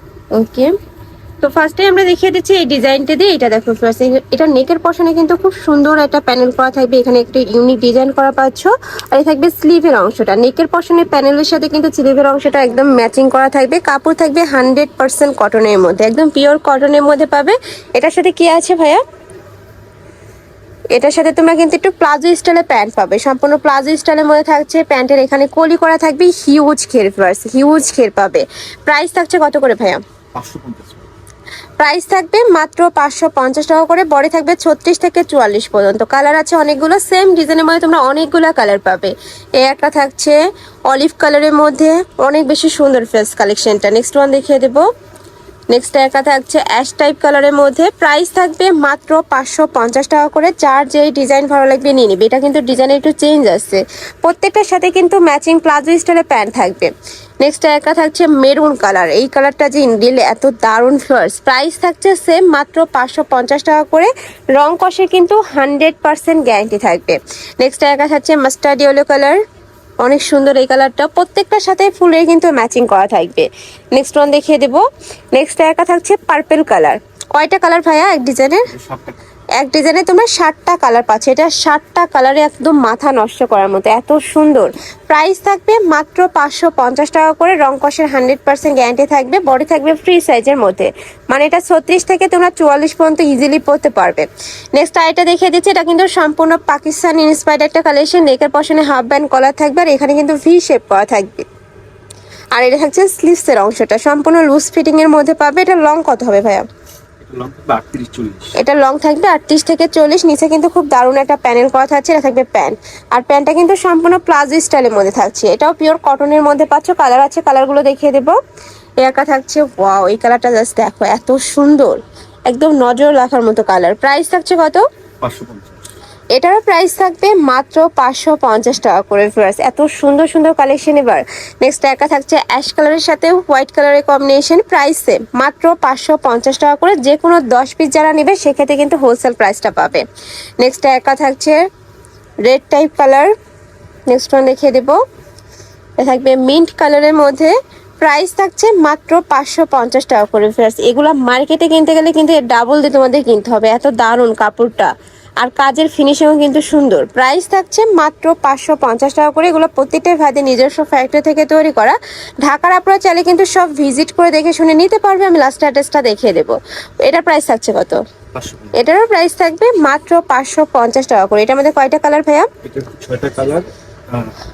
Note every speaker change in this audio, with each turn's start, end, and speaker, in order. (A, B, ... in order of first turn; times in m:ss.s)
0:00.3-0:00.7 A
0:01.4-0:19.0 A
0:20.9-0:30.0 A
0:30.3-0:31.1 B
0:31.8-0:40.4 A
0:40.9-0:44.8 A
0:45.7-1:09.4 A
1:10.0-1:14.8 A
1:15.4-1:18.7 A
1:18.7-1:19.2 B
1:19.6-1:41.5 A
1:42.5-1:46.6 A
1:47.2-1:48.5 B
1:48.6-1:58.4 A
1:59.0-2:04.8 A
2:05.2-2:05.8 B
2:06.3-2:20.0 A
2:20.6-2:21.6 A
2:22.4-2:23.3 A
2:24.1-2:25.0 A
2:26.0-2:48.0 A
2:48.3-2:48.8 B
2:48.7-2:52.5 A
2:52.6-2:54.3 B